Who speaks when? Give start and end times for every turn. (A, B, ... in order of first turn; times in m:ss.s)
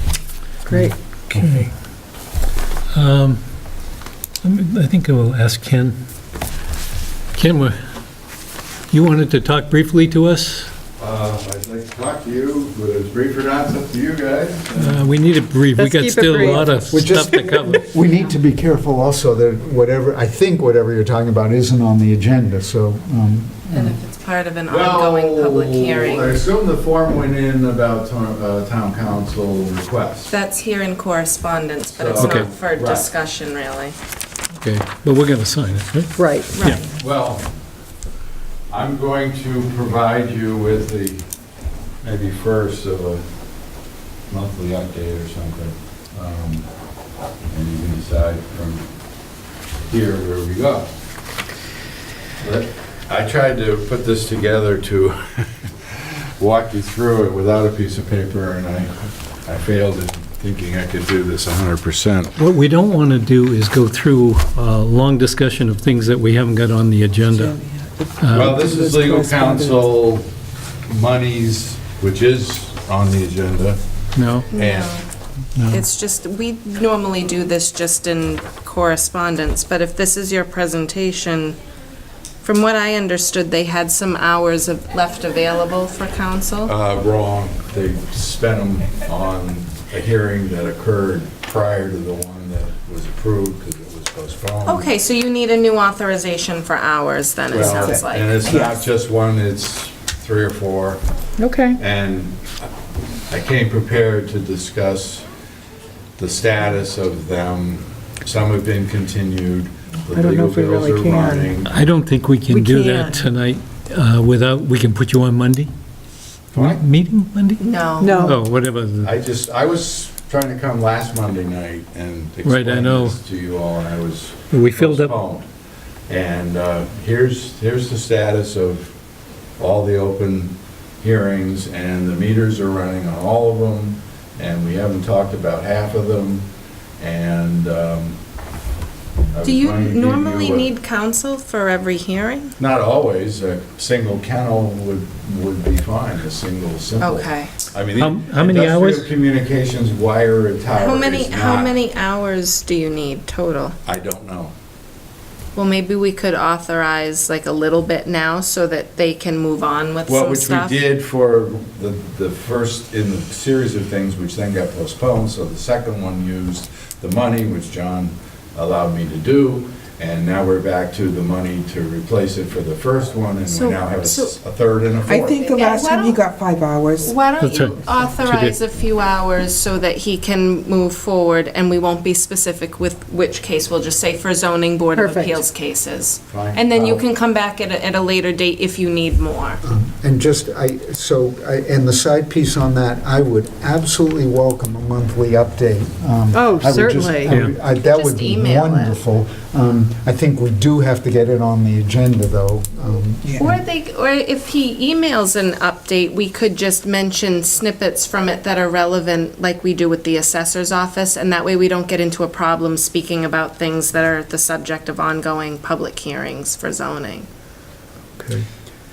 0:00.6-0:00.9 A
0:00.6-0:01.7 B
0:01.3-0:01.7 C
0:02.9-0:03.4 C
0:04.4-0:06.0 C
0:07.3-0:07.8 C
0:08.9-0:10.7 C
0:11.0-0:15.0 D
0:14.8-0:17.9 C
0:15.7-0:17.3 A
0:16.9-0:23.9 B
0:23.7-0:26.4 E
0:24.7-0:30.3 D
0:30.3-0:33.9 E
0:31.9-0:33.1 D
0:32.2-0:32.5 C
0:34.6-0:36.8 C
0:36.2-0:36.7 A
0:36.5-0:36.9 E
0:36.9-0:37.5 D
0:38.7-0:41.3 D
0:42.0-0:43.2 D
0:44.3-0:46.7 D
0:47.5-0:48.8 D
0:49.9-0:50.9 D
0:52.4-0:58.9 D
0:59.4-1:02.3 D
1:02.4-1:07.6 C
1:07.3-1:09.9 F
1:08.2-1:08.6 C
1:08.3-1:10.3 D
1:10.9-1:13.8 D
1:14.1-1:14.5 C
1:14.5-1:15.0 E
1:14.5-1:14.9 D
1:15.7-1:21.6 E
1:22.4-1:26.7 E
1:26.6-1:34.9 D
1:34.6-1:38.6 E
1:37.5-1:41.0 D
1:37.7-1:38.8 F
1:41.4-1:41.8 A
1:41.8-1:42.7 D
1:43.3-1:45.2 D
1:46.2-1:51.7 D
1:50.0-1:51.6 A
1:51.6-1:55.7 C
1:52.5-1:53.2 A
1:56.5-1:59.1 C
1:56.5-1:56.8 D
1:57.6-1:58.3 E
1:58.0-1:58.4 A
1:59.0-2:05.4 D
2:02.4-2:03.2 C
2:04.5-2:05.1 C
2:06.1-2:08.9 D
2:09.6-2:16.4 D
2:17.0-2:18.2 D
2:19.3-2:20.7 D
2:19.4-2:22.5 E
2:22.6-2:31.7 D
2:27.0-2:27.5 E
2:27.9-2:29.1 C
2:30.8-2:33.8 E
2:33.8-2:34.5 D
2:35.6-2:40.8 E
2:40.0-2:55.4 D
2:53.4-2:54.4 E
2:55.0-2:57.1 F
2:55.3-2:56.2 E
2:57.0-3:09.6 E
2:57.4-2:58.6 C
3:04.9-3:05.4 A
3:06.3-3:07.0 D
3:09.6-3:23.6 B
3:16.3-3:17.4 A
3:17.7-3:19.0 E
3:23.3-3:37.3 E
3:38.2-3:38.4 B